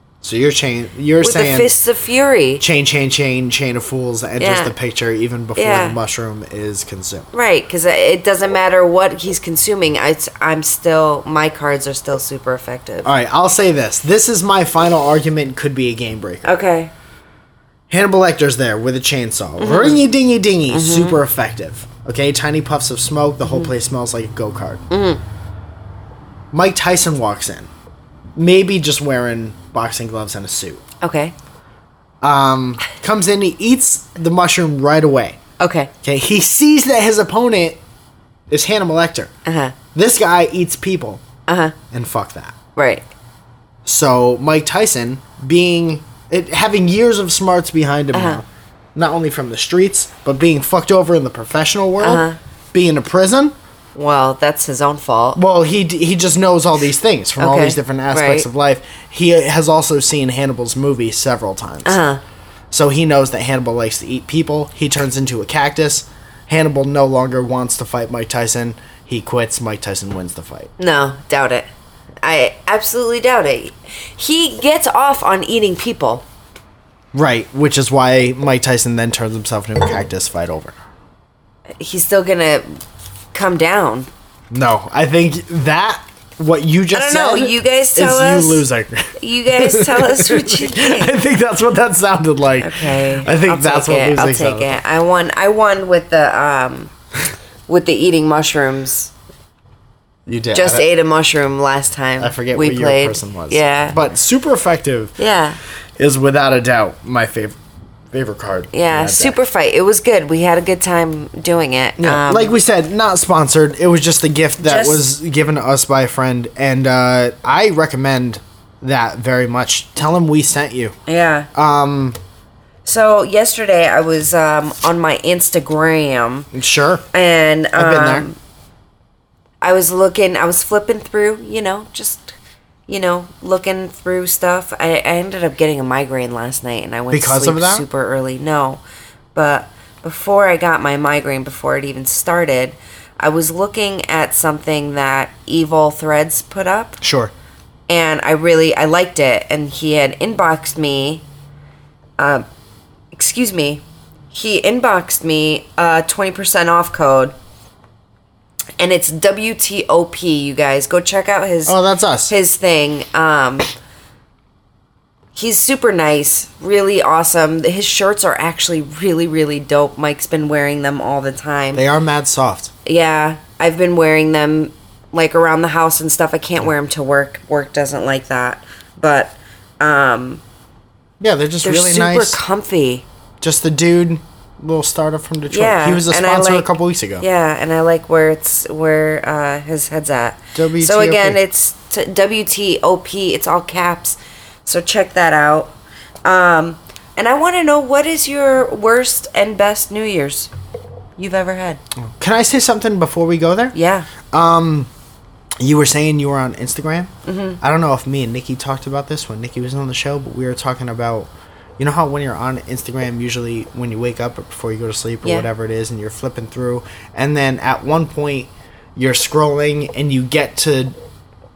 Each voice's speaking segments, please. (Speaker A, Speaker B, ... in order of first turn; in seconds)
Speaker A: 0.2-1.8, 2.6-7.3, 13.0-16.6, 17.9-24.8, 26.5-27.7, 28.4-30.8, 32.2-35.4, 36.0-37.8, 38.5-39.3, 39.9-41.2, 41.9-42.6, 43.9-53.5, 55.4-62.0, 62.7-70.7, 77.1-80.8, 84.5-94.8, 100.3-100.9, 102.2-105.1, 106.0-107.6, 108.1-109.4, 112.0-120.9, 121.5-122.2, 126.5-127.0, 127.8-128.3, 137.1-137.8, 147.0-147.3, 161.7-162.3, 171.7-172.7, 181.2-182.4, 183.4-187.3, 190.6-191.4, 202.1-203.8, 204.3-204.9, 205.6-220.9
Speaker B: 1.2-2.6, 4.4-4.7, 5.5-6.0, 7.3-13.1, 16.4-16.9, 19.6-20.0, 20.7-21.2, 24.9-25.2, 31.0-31.3, 35.6-35.9, 39.5-39.8, 41.5-41.8, 42.8-43.0, 48.1-48.4, 52.0-52.4, 54.0-55.4, 57.4-58.5, 61.9-62.2, 70.8-71.7, 72.2-76.2, 81.8-82.8, 83.3-84.1, 86.9-88.7, 89.2-91.1, 92.6-96.9, 97.7-99.1, 100.5-104.0, 105.2-105.6, 108.7-112.6, 114.6-115.0, 121.1-121.5, 122.8-126.5, 127.1-128.4, 129.6-132.3, 132.9-138.8, 139.3-147.0, 147.9-151.2, 152.2-152.4, 153.1-157.3, 158.8-161.8, 162.3-163.7, 165.3-171.8, 172.9-180.4, 181.6-183.1, 185.5-186.7, 187.2-195.7, 196.2-200.5, 201.2-201.8, 203.7-204.1, 207.2-207.6, 215.2-215.5